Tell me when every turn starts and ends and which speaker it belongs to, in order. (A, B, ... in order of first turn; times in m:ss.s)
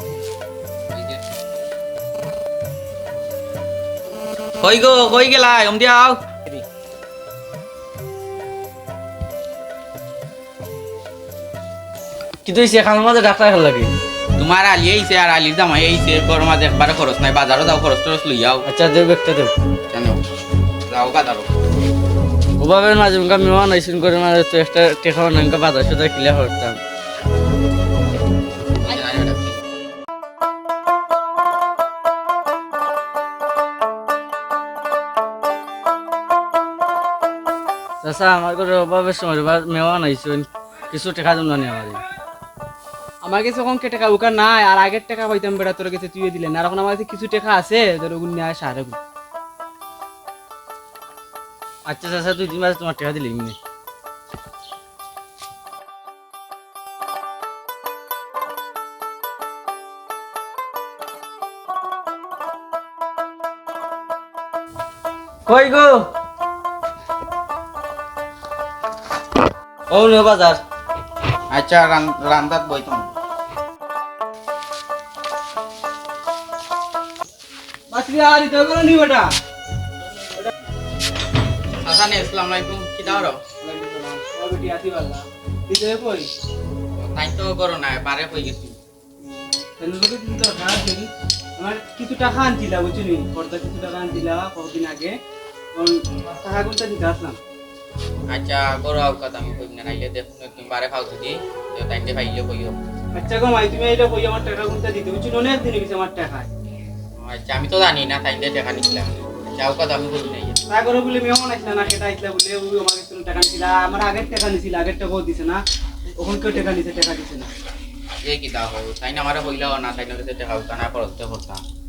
0:00.9-0:01.2 A
0:04.6-0:06.2 A
0:12.4-0:13.9 B
0:14.4-0:18.7 A
0:18.6-0:19.5 B
0:19.9-0:20.2 A
0:20.9-0:21.5 A
0:22.6-0:26.8 B
0:28.8-0:29.6 A
0:38.0-0:42.0 B
0:43.2-0:49.0 C
0:51.9-0:53.6 B
1:05.5-1:06.1 B
1:09.9-1:10.6 B
1:11.5-1:13.1 A
1:17.9-1:19.3 C
1:21.8-1:23.4 A
1:23.6-1:26.3 C
1:27.0-1:28.8 A
1:29.6-1:35.2 C
1:35.8-1:37.4 C
1:38.3-1:42.8 A
1:43.1-1:46.5 C
1:47.2-1:50.6 A
1:50.7-1:55.6 C
1:56.2-1:57.5 C
1:58.2-2:01.6 A